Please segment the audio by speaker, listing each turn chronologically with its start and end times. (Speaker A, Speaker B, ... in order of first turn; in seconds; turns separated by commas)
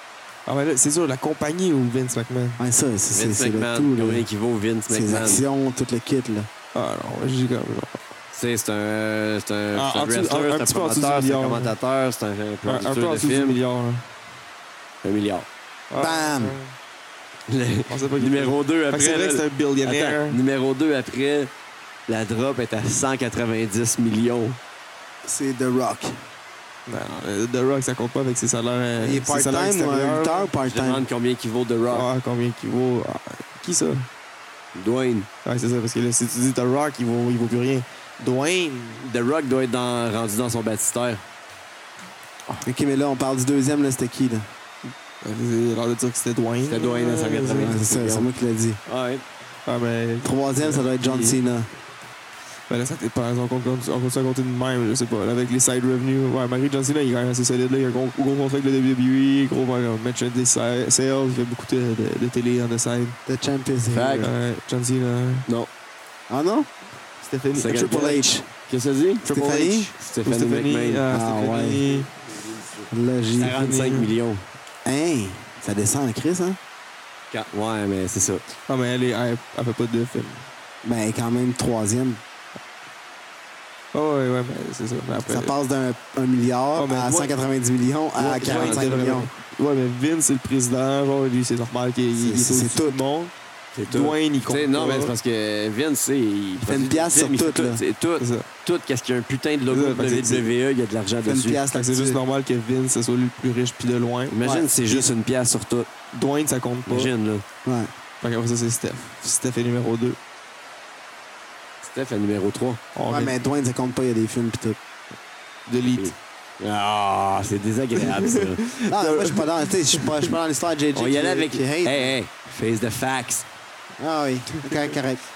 Speaker A: 0.5-2.6, Speaker B: 2.6-4.2, Speaker C: 3.1-5.4, Speaker B: 4.9-6.5, Speaker A: 6.7-8.0, Speaker C: 8.3-13.6, Speaker A: 9.7-11.7, Speaker A: 12.6-14.1, Speaker C: 15.0-15.5, Speaker A: 15.9-16.7, Speaker B: 15.9-16.6, Speaker C: 17.5-21.5, Speaker A: 17.9-20.4, Speaker C: 22.1-24.6, Speaker B: 25.2-26.1, Speaker A: 26.9-30.5, Speaker B: 29.0-31.1, Speaker C: 30.6-32.1, Speaker A: 31.9-34.1, Speaker C: 34.7-35.3, Speaker A: 35.4-39.0, Speaker C: 39.0-41.2, Speaker B: 42.6-44.5, Speaker A: 45.2-47.8, Speaker C: 46.6-48.3, Speaker B: 47.5-48.8, Speaker C: 48.9-49.2, Speaker A: 49.6-51.4, Speaker B: 50.2-51.7, Speaker A: 52.7-63.2, Speaker B: 63.2-64.3, Speaker C: 63.9-64.3, Speaker A: 64.2-65.5, Speaker B: 66.3-66.7, Speaker A: 67.2-68.3, Speaker C: 67.5-69.3, Speaker B: 67.7-68.5, Speaker A: 69.2-72.1, Speaker B: 69.2-69.9, Speaker C: 70.0-74.4, Speaker B: 71.1-71.8, Speaker B: 72.9-73.6, Speaker A: 73.4-74.1, Speaker B: 74.8-76.6, Speaker C: 77.3-78.4, Speaker A: 78.7-80.5, Speaker B: 80.8-82.2, Speaker A: 83.9-85.5, Speaker B: 85.3-89.3, Speaker A: 86.8-87.3, Speaker A: 88.2-93.3, Speaker C: 88.4-89.0, Speaker B: 92.1-93.0, Speaker C: 93.7-101.6, Speaker A: 93.9-95.1, Speaker B: 96.6-97.8, Speaker A: 98.2-98.5, Speaker A: 99.7-100.5, Speaker B: 101.2-102.2, Speaker A: 101.7-104.3, Speaker C: 104.3-105.9, Speaker B: 104.4-104.7, Speaker A: 106.1-107.1, Speaker C: 106.8-107.4, Speaker B: 107.6-107.9, Speaker A: 108.2-110.2, Speaker C: 111.8-112.8, Speaker A: 112.9-113.3, Speaker B: 113.1-114.8, Speaker A: 115.7-116.1, Speaker C: 115.9-118.7, Speaker A: 118.0-120.3, Speaker B: 118.9-122.2, Speaker C: 120.9-123.5, Speaker B: 124.0-125.2